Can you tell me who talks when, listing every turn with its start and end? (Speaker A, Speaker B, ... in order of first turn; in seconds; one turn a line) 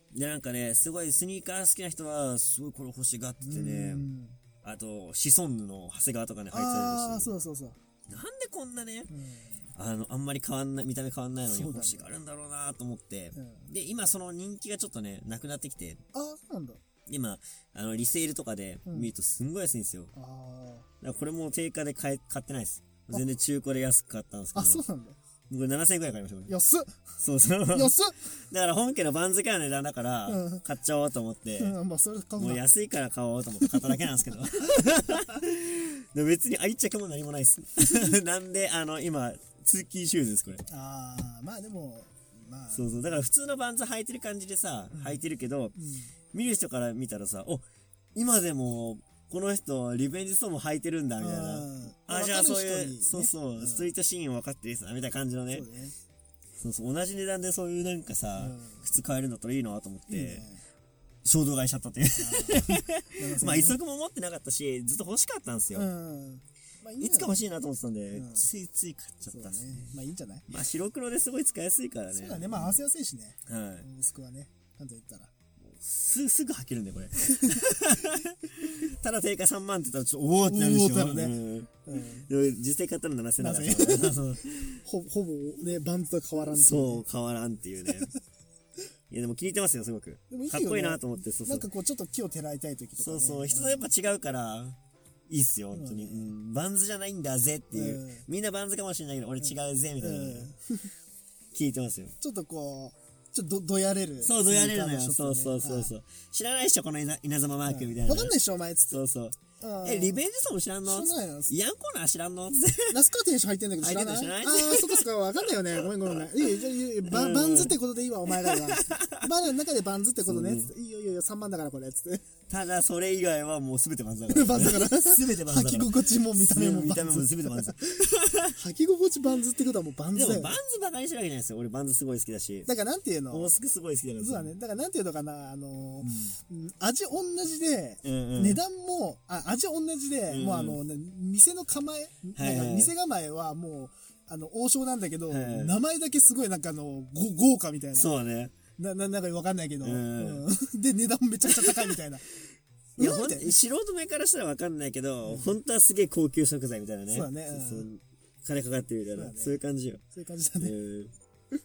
Speaker A: 0.1-4.1
Speaker B: 3.4-4.4
Speaker A: 4.6-7.3
Speaker B: 6.5-7.8
Speaker A: 8.1-9.1
Speaker B: 9.1-9.7
Speaker A: 9.7-16.0
Speaker B: 11.4-12.1
Speaker B: 13.3-13.7
Speaker B: 16.1-16.8
Speaker A: 17.1-20.1
Speaker B: 20.1-20.9
Speaker A: 21.0-24.8
Speaker B: 24.5-25.2
Speaker A: 25.5-26.5
Speaker B: 26.5-28.2
Speaker A: 27.2-31.7
Speaker B: 30.2-30.6
Speaker B: 31.6-32.6
Speaker A: 32.4-40.6
Speaker B: 33.6-34.3
Speaker B: 40.7-43.2
Speaker A: 42.7-45.8
Speaker B: 44.9-45.2
Speaker B: 45.8-46.1
Speaker A: 46.3-47.6
Speaker A: 48.1-55.7
Speaker B: 51.2-53.9
Speaker B: 55.5-55.9
Speaker A: 56.6-60.5
Speaker B: 58.4-58.9
Speaker B: 60.1-60.6
Speaker A: 61.2-65.9
Speaker B: 62.2-63.8
Speaker B: 65.7-67.4
Speaker A: 67.0-69.9
Speaker B: 68.1-68.5
Speaker B: 69.3-70.5
Speaker A: 70.5-72.8
Speaker B: 72.1-75.3
Speaker A: 73.5-73.9
Speaker A: 75.6-84.8
Speaker B: 77.2-77.6
Speaker B: 80.5-82.3
Speaker B: 83.4-87.0
Speaker A: 86.3-88.1
Speaker A: 89.1-91.7
Speaker B: 90.3-93.9
Speaker A: 93.0-94.8
Speaker A: 95.3-100.5
Speaker B: 95.7-96.3
Speaker B: 97.7-98.3
Speaker B: 99.4-100.9
Speaker A: 101.5-102.1
Speaker B: 102.2-105.9
Speaker A: 104.2-108.3
Speaker B: 107.7-109.0
Speaker A: 108.9-113.0
Speaker B: 109.6-110.2
Speaker B: 110.8-111.5
Speaker B: 112.9-122.2
Speaker A: 113.8-115.1
Speaker A: 115.7-117.8
Speaker A: 118.3-119.3
Speaker A: 120.2-120.7
Speaker A: 122.5-128.6
Speaker B: 124.3-127.8
Speaker B: 128.5-130.6
Speaker A: 130.1-132.7
Speaker B: 132.7-133.6
Speaker A: 133.3-134.5
Speaker B: 134.2-148.1
Speaker A: 136.0-136.4
Speaker A: 138.0-138.6
Speaker A: 140.3-140.8
Speaker A: 142.3-142.9
Speaker A: 145.3-145.7
Speaker A: 147.9-148.5
Speaker B: 148.8-152.2
Speaker A: 149.8-150.4
Speaker A: 151.4-151.9
Speaker B: 153.0-153.6
Speaker A: 153.0-160.0
Speaker B: 155.2-155.6
Speaker B: 157.1-157.9
Speaker B: 159.1-159.6
Speaker B: 160.1-160.7
Speaker A: 160.6-161.1